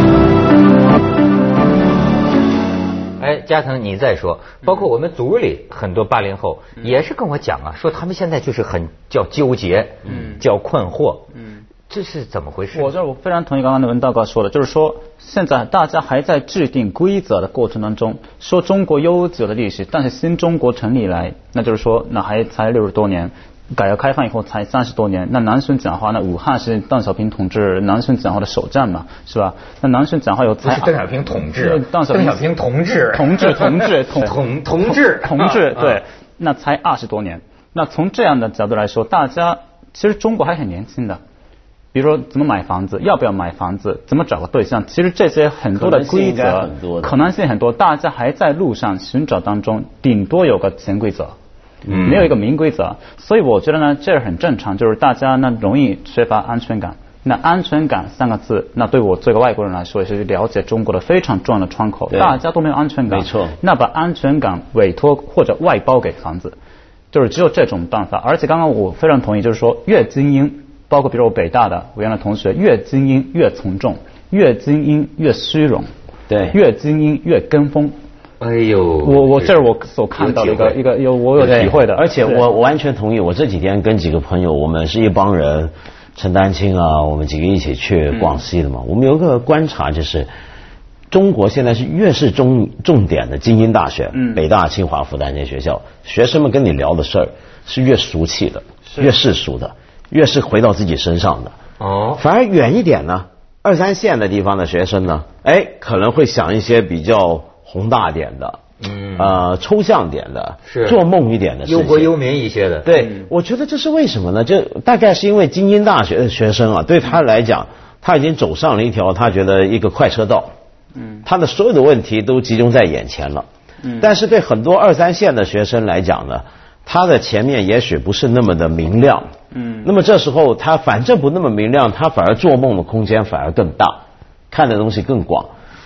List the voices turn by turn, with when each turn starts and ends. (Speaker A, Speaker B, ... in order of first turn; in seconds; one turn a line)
Speaker A: 3.2-11.3
Speaker B: 10.1-10.4
Speaker A: 11.9-12.9
Speaker B: 12.7-30.9
Speaker A: 30.6-36.0
Speaker B: 31.5-32.5
Speaker B: 33.1-41.2
Speaker B: 41.9-51.3
Speaker C: 45.7-47.2
Speaker C: 51.9-52.2
Speaker A: 51.9-52.3
Speaker B: 51.9-66.5
Speaker C: 62.1-62.4
Speaker C: 63.1-63.5
Speaker B: 67.1-75.9
Speaker C: 76.3-76.5
Speaker B: 76.5-77.9
Speaker A: 78.4-79.5
Speaker B: 79.0-82.4
Speaker A: 80.2-80.8
Speaker C: 81.4-90.3
Speaker A: 81.4-81.7
Speaker C: 91.1-101.5
Speaker B: 94.1-94.4
Speaker A: 101.8-102.2
Speaker C: 102.2-108.6
Speaker A: 108.8-109.4
Speaker C: 109.1-112.1
Speaker A: 110.7-111.0
Speaker A: 111.6-112.9
Speaker C: 112.8-120.5
Speaker C: 121.2-123.5
Speaker B: 123.8-124.1
Speaker C: 124.0-129.3
Speaker B: 129.5-129.9
Speaker C: 129.8-135.5